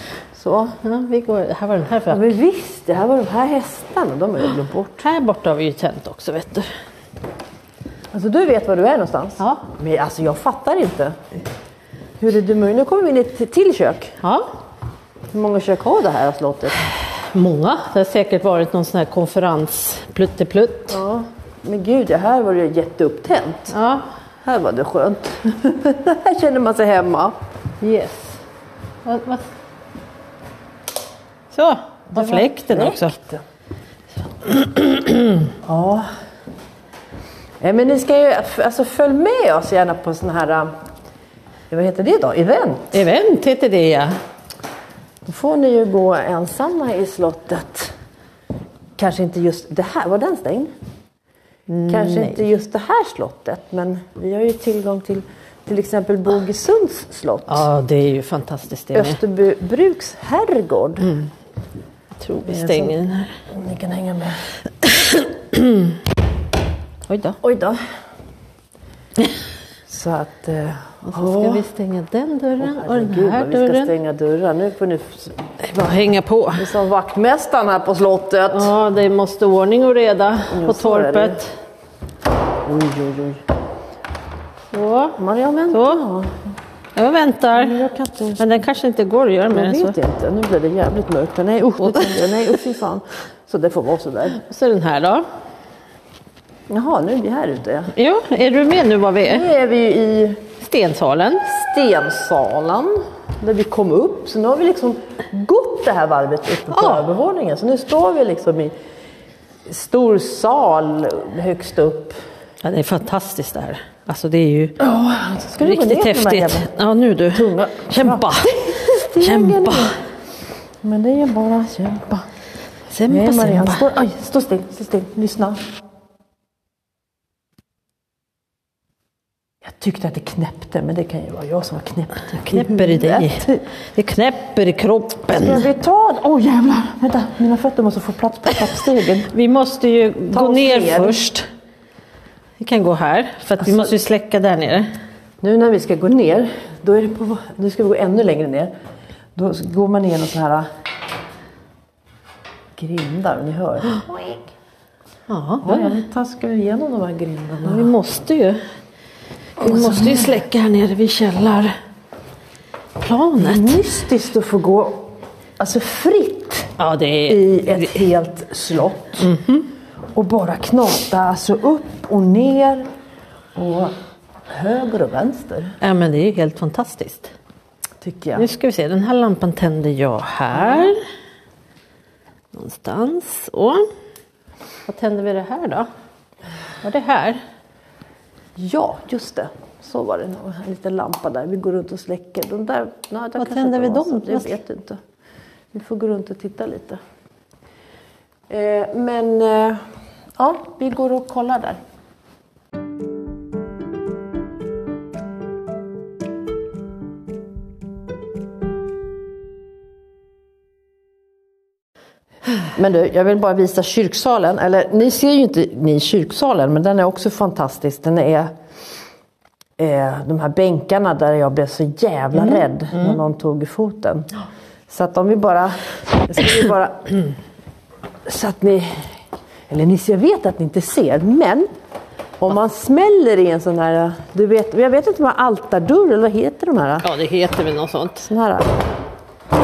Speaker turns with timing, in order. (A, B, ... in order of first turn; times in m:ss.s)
0:00.3-0:00.8 A
0:00.8-0:02.2 B
0:02.1-0:05.0 A
0:05.0-0:06.7 B
0:08.1-0:11.2 A
0:12.2-0:14.2 A
0:14.2-0:14.5 B
0:15.3-0:16.8 A
0:17.1-0:21.0 B
0:20.9-0:23.7 A
0:23.7-0:24.1 B
0:24.4-0:27.4 A
0:27.8-0:28.4 B
0:29.0-0:29.5 B
0:31.5-0:33.1 B
0:32.1-0:33.4 A
0:34.4-0:35.5 B
0:35.6-0:36.1 A
0:37.6-0:40.7 A
0:41.7-0:43.0 A
0:42.9-0:44.2 B
0:45.2-0:47.9 A
0:49.0-0:50.7 A
0:51.7-0:52.4 B
0:51.9-0:57.7 A
0:57.5-0:59.2 B
0:58.9-1:01.2 A
1:02.2-1:03.3 B
1:02.4-1:03.0 A
1:03.5-1:04.4 A
1:04.8-1:06.0 B
1:07.1-1:07.4 B
1:07.4-1:07.8 A
1:09.9-1:11.6 A
1:11.1-1:13.9 B
1:12.6-1:15.4 A
1:15.6-1:16.7 B
1:16.6-1:18.7 A
1:18.5-1:21.5 B
1:20.5-1:21.4 A
1:22.6-1:23.4 A
1:24.7-1:25.2 B
1:25.2-1:26.4 A
1:25.7-1:26.0 B
1:26.9-1:27.8 B
1:27.5-1:28.4 A
1:28.4-1:30.0 B
1:29.5-1:34.4 A
1:31.9-1:32.2 B
1:34.3-1:35.2 B
1:36.7-1:37.9 A
1:37.9-1:39.4 B
1:39.2-1:40.4 A
1:40.6-1:41.4 B
1:41.4-1:48.7 A
1:46.7-1:47.0 B
1:49.7-1:52.2 A
1:52.6-1:54.8 B
1:54.8-1:56.7 A
1:55.6-1:59.9 B
1:57.3-2:00.0 A
2:00.8-2:02.2 A
2:02.9-2:03.9 B
2:03.1-2:05.6 A
2:09.6-2:13.6 A
2:12.3-2:15.6 B
2:15.3-2:19.3 A
2:19.3-2:21.4 B
2:20.3-2:21.3 A
2:22.6-2:24.9 B
2:23.6-2:23.9 A
2:25.4-2:28.7 A
2:29.4-2:30.7 A
2:32.8-2:34.5 A
2:35.3-2:36.0 B
2:35.6-2:37.9 A
2:37.6-2:38.6 B
2:39.6-2:41.7 B
2:39.6-2:40.4 A
2:43.0-2:43.8 B
2:43.4-2:46.7 A
2:46.8-2:48.0 B
2:47.3-2:49.4 A
2:49.2-2:49.7 B
2:50.1-2:52.9 A
2:53.6-2:53.9 A
2:54.5-2:55.8 A
2:55.8-2:57.3 B
2:58.0-2:58.5 A
2:58.4-3:01.0 B
3:02.5-3:03.8 B
3:04.9-3:05.9 B
3:06.8-3:07.4 B
3:08.6-3:15.0 A
3:13.4-3:14.6 B
3:15.7-3:17.0 A
3:18.5-3:19.8 A
3:20.4-3:21.8 A
3:32.7-3:38.5 A
3:39.8-3:44.3 A
3:44.9-3:47.2 A
3:48.2-3:49.1 A
3:49.7-3:51.7 A
3:52.4-3:57.1 A
3:57.0-3:58.3 B
3:58.2-3:58.8 A